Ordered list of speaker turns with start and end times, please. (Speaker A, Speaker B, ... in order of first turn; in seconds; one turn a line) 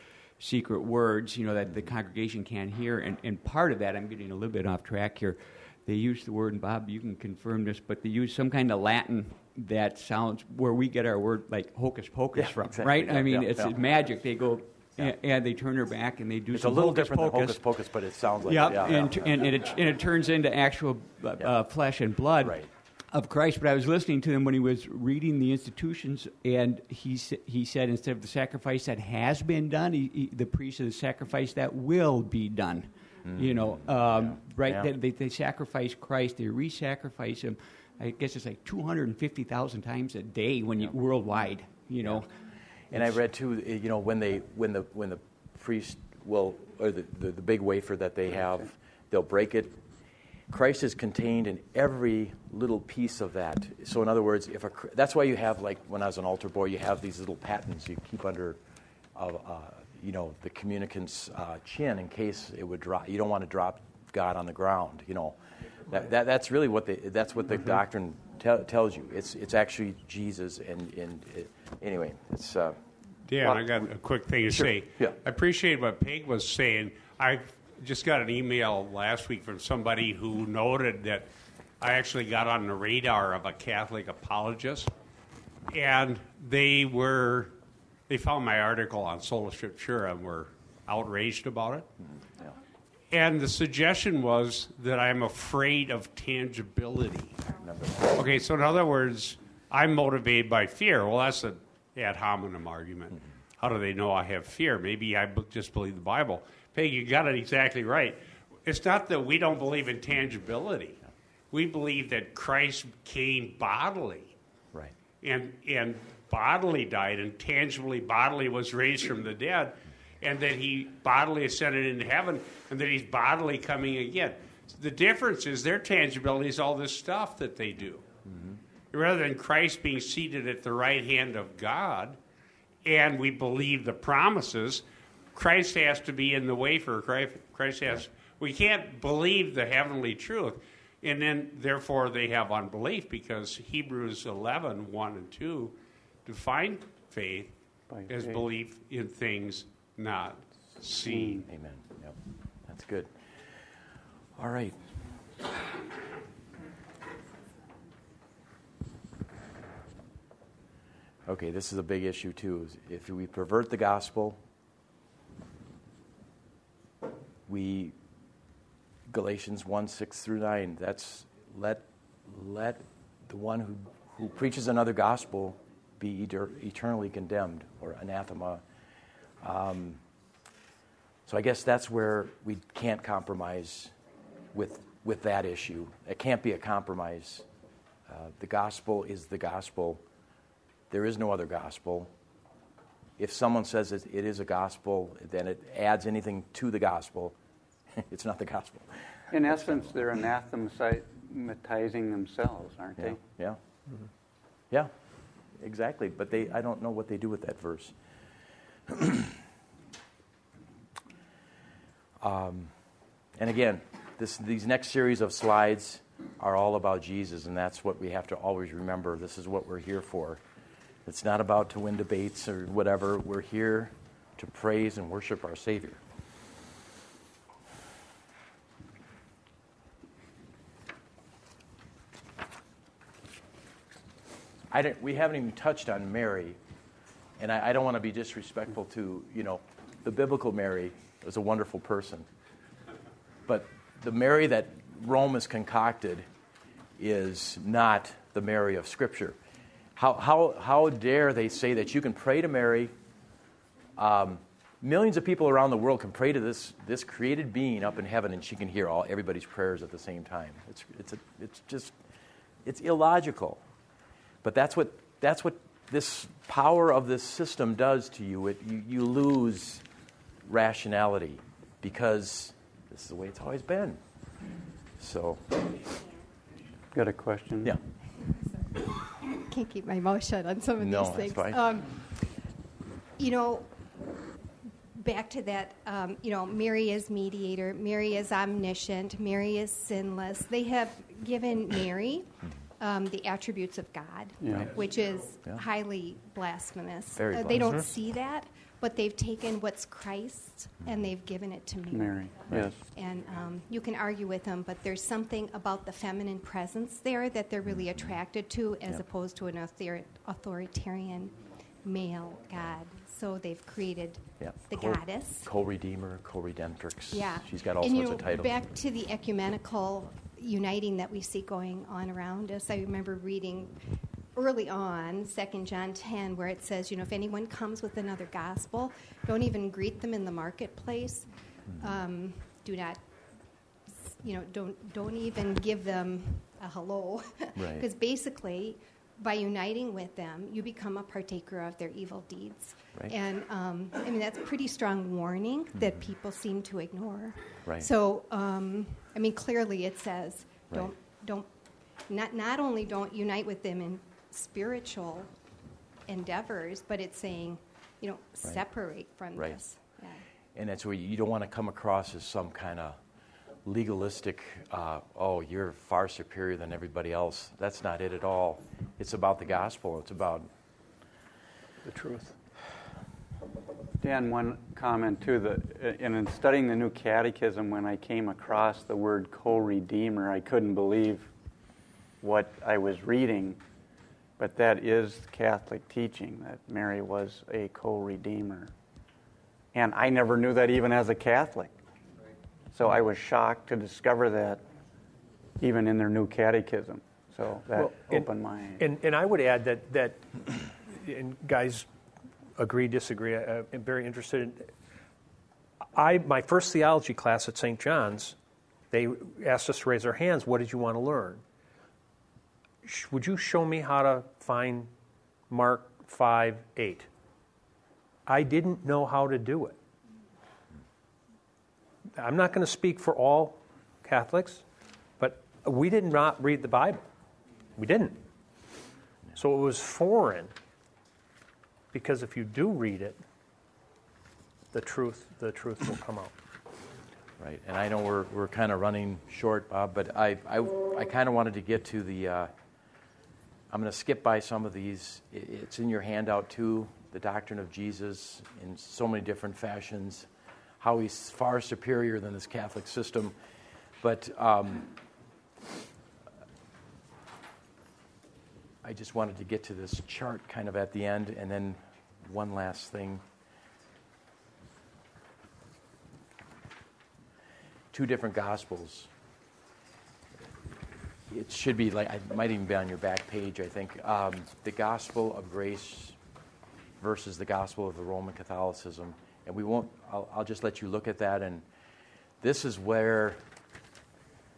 Speaker A: 0.4-17.7
Speaker B: 12.3-14.1
Speaker B: 16.5-19.5
Speaker A: 18.4-42.3
Speaker B: 22.4-22.7
Speaker B: 33.2-34.9
Speaker B: 42.0-42.3
Speaker B: 42.9-49.8
Speaker A: 42.9-43.2
Speaker B: 50.5-58.6
Speaker B: 59.1-65.4
Speaker B: 65.9-72.8
Speaker C: 73.3-81.3
Speaker B: 74.5-75.2
Speaker C: 81.8-84.9
Speaker C: 85.7-87.5
Speaker C: 88.1-91.9
Speaker C: 93.1-97.4
Speaker B: 97.6-98.1
Speaker C: 98.0-111.0
Speaker C: 111.5-114.3
Speaker C: 115.2-128.0
Speaker C: 128.9-132.2
Speaker C: 132.8-147.5
Speaker D: 147.9-148.4
Speaker C: 148.1-151.5
Speaker B: 151.4-153.1
Speaker B: 154.4-154.8
Speaker B: 161.3-164.4
Speaker B: 167.5-167.9
Speaker B: 169.1-178.6
Speaker B: 179.4-180.0
Speaker B: 181.3-183.9
Speaker B: 184.5-187.4
Speaker B: 188.1-190.0
Speaker B: 190.9-192.1
Speaker B: 193.2-197.3
Speaker B: 198.0-198.9
Speaker D: 199.3-203.2
Speaker B: 199.4-199.9
Speaker B: 203.0-203.6
Speaker B: 205.6-207.9
Speaker B: 208.9-209.4
Speaker B: 212.2-212.7
Speaker B: 213.4-220.4
Speaker B: 221.1-226.0
Speaker B: 234.7-236.6
Speaker B: 237.4-242.3
Speaker B: 243.5-246.3
Speaker B: 247.0-249.4
Speaker B: 250.0-252.9
Speaker B: 254.0-262.0
Speaker B: 262.6-263.6
Speaker B: 264.4-269.8
Speaker B: 270.5-274.0
Speaker B: 275.0-275.6
Speaker D: 276.9-277.8
Speaker E: 278.6-282.1
Speaker B: 280.8-281.6
Speaker E: 283.2-283.7
Speaker E: 284.9-302.3
Speaker D: 294.4-294.7
Speaker B: 297.2-297.9
Speaker D: 301.9-302.8
Speaker E: 302.9-315.5
Speaker B: 314.4-318.5
Speaker E: 317.1-323.8
Speaker E: 324.4-333.0
Speaker E: 334.1-351.5
Speaker B: 337.6-337.9
Speaker E: 352.1-355.3
Speaker E: 356.1-360.2
Speaker B: 360.6-363.0
Speaker B: 363.6-370.5
Speaker F: 371.9-372.4
Speaker D: 374.0-381.3
Speaker D: 382.2-383.6
Speaker D: 384.4-388.7
Speaker D: 389.7-391.7
Speaker D: 392.7-394.6
Speaker D: 395.6-398.8
Speaker F: 397.8-401.9
Speaker F: 402.6-404.7
Speaker F: 405.9-408.4
Speaker F: 408.9-411.4
Speaker F: 412.8-414.9
Speaker F: 415.5-417.1
Speaker F: 418.3-419.8
Speaker F: 422.2-424.6
Speaker F: 425.2-427.1
Speaker F: 427.8-428.2
Speaker F: 429.4-430.5
Speaker F: 431.9-433.2
Speaker F: 434.7-436.3
Speaker B: 437.4-442.5
Speaker B: 443.7-450.3
Speaker B: 450.8-453.4
Speaker B: 454.0-454.9
Speaker B: 458.8-463.2
Speaker B: 467.9-469.1
Speaker B: 471.3-476.2
Speaker B: 477.0-481.6
Speaker B: 482.4-483.4